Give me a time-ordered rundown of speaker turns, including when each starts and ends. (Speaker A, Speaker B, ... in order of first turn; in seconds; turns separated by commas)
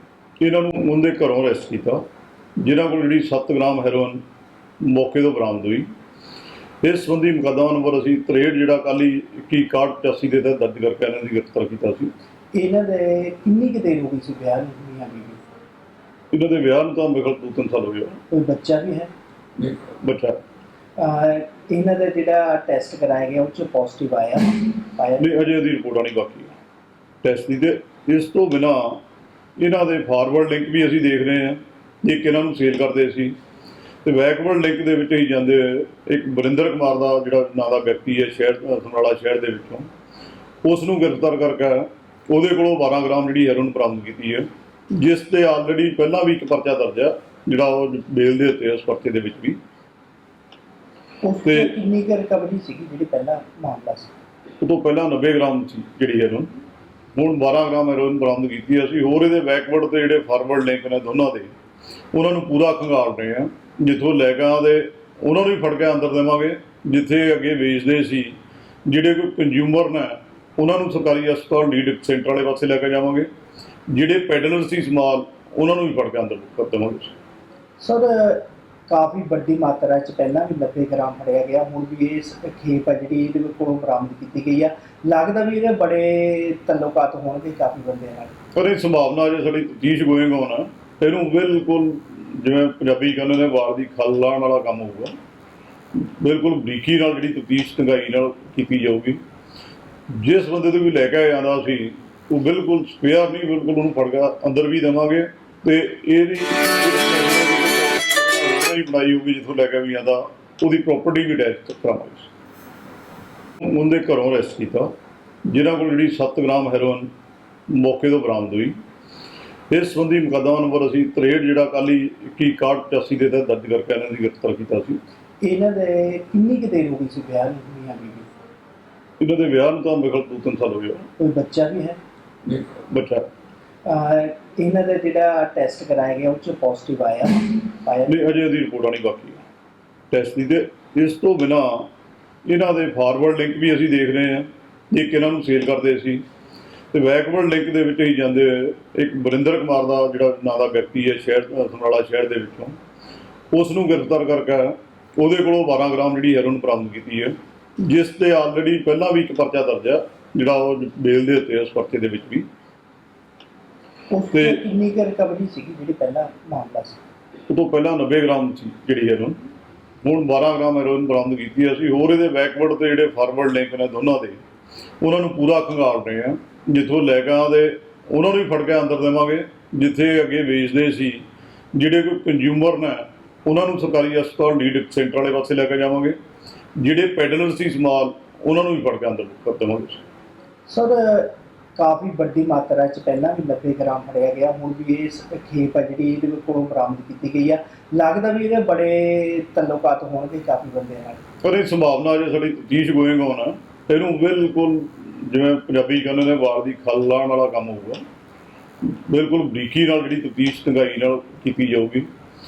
Speaker A: 0.4-2.0, Speaker A: 2.6-4.2, Speaker A: 4.8-5.9, Speaker A: 6.8-12.1, Speaker B: 12.5-15.4, Speaker A: 16.3-18.2, Speaker B: 18.3-19.1, Speaker A: 19.6-20.4, Speaker B: 21.0-25.4, Speaker A: 25.2-26.5, Speaker A: 27.2-29.0, Speaker A: 29.6-33.3, Speaker A: 34.0-39.9, Speaker A: 40.6-49.6, Speaker B: 51.2-54.1, Speaker A: 51.4-51.8, Speaker A: 54.6-56.5, Speaker A: 57.1-61.5, Speaker A: 62.1-73.3, Speaker A: 73.9-77.1, Speaker B: 77.8-88.3, Speaker A: 88.5-95.1, Speaker A: 96.0-99.2, Speaker A: 100.1-112.3, Speaker A: 113.6-114.9, Speaker A: 115.5-117.1, Speaker A: 117.7-118.8, Speaker A: 119.7-125.0, Speaker B: 125.4-128.3, Speaker A: 129.2-131.1, Speaker B: 131.2-132.0, Speaker A: 132.5-133.2, Speaker B: 133.8-138.2, Speaker A: 138.1-139.4, Speaker A: 140.1-141.9, Speaker A: 142.4-146.2, Speaker A: 146.9-152.8, Speaker A: 153.5-162.5, Speaker B: 164.1-167.0, Speaker A: 164.3-164.6, Speaker A: 167.5-169.4, Speaker A: 170.0-174.4, Speaker A: 175.0-186.2, Speaker A: 186.8-190.0, Speaker B: 190.7-201.2, Speaker A: 201.4-208.0, Speaker A: 208.9-212.1